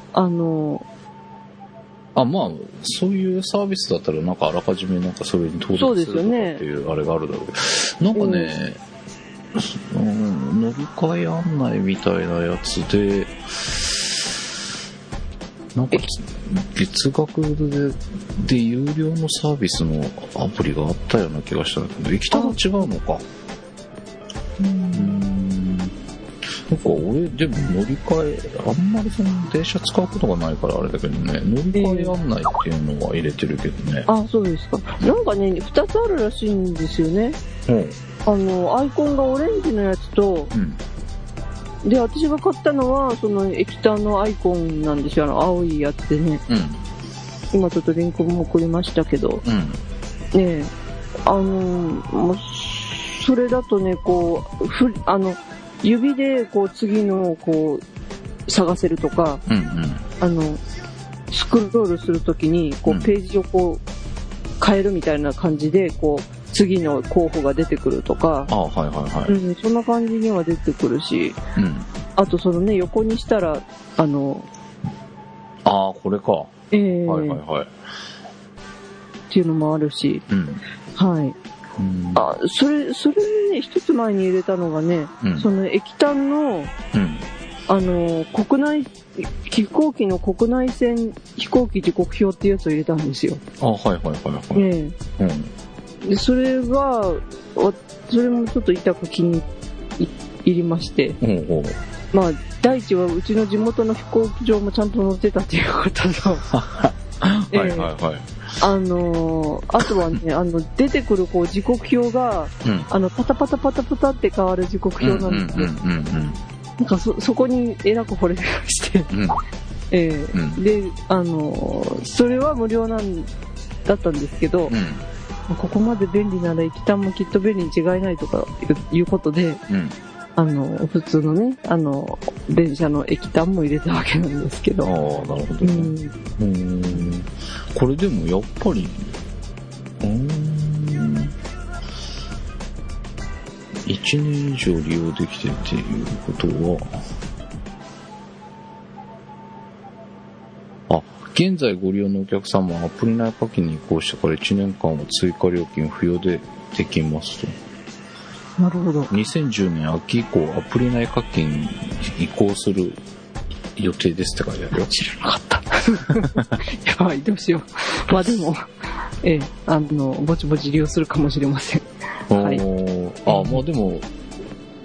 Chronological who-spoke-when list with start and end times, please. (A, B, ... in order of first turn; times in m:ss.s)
0:00.1-0:00.8 A
0:02.1-0:08.8 B
0:05.7-0:06.6 A
0:08.1-0:08.5 A
0:09.5-0:14.2 B
0:15.7-0:23.2 B
0:22.3-0:22.8 A
0:24.6-0:25.2 A
0:24.9-0:25.9 B
0:26.7-0:34.1 B
0:31.7-0:32.1 A
0:34.1-0:37.4 A
0:37.7-0:38.0 B
0:38.2-0:40.5 A
0:40.5-0:40.8 B
0:41.8-0:46.4 A
0:46.5-0:46.8 B
0:47.5-0:49.4 A
0:49.4-0:49.8 B
0:50.3-0:50.7 A
0:51.2-0:57.8 A
0:58.5-0:59.4 A
0:59.5-1:00.0 B
1:00.2-1:00.6 A
1:01.3-1:03.8 A
1:04.6-1:08.5 A
1:08.5-1:09.4 B
1:09.3-1:11.4 A
1:11.6-1:11.9 B
1:12.2-1:14.5 A
1:15.6-1:16.5 B
1:16.7-1:17.4 A
1:17.0-1:17.7 B
1:19.3-1:20.2 A
1:20.3-1:20.6 B
1:20.9-1:21.4 A
1:21.8-1:22.3 B
1:22.1-1:26.7 A
1:25.2-1:25.5 B
1:26.9-1:27.2 B
1:27.7-1:33.4 A
1:33.6-1:35.5 B
1:34.5-1:35.0 A
1:36.0-1:39.5 A
1:40.0-1:41.2 A
1:41.2-1:41.8 B
1:42.1-1:46.5 A
1:46.5-1:48.3 B
1:47.5-1:47.9 A
1:48.6-1:55.7 A
1:49.8-1:50.2 B
1:52.6-1:52.9 B
1:55.0-1:56.4 B
1:56.8-1:59.1 A
1:59.1-1:59.4 B
1:59.9-2:03.3 A
2:00.3-2:00.6 B
2:03.8-2:04.8 A
2:04.7-2:05.0 B
2:05.5-2:09.6 A
2:09.7-2:10.0 B
2:10.4-2:14.9 A
2:14.8-2:19.1 B
2:15.6-2:16.1 A
2:20.0-2:21.3 B
2:23.8-2:26.9 B
2:30.9-2:37.5 B
2:38.6-2:39.1 A
2:39.1-2:43.0 B
2:43.8-2:44.9 B
2:44.8-2:48.6 A
2:46.1-2:46.5 B
2:49.2-2:52.6 A
2:52.3-2:54.1 B
2:53.3-2:53.6 A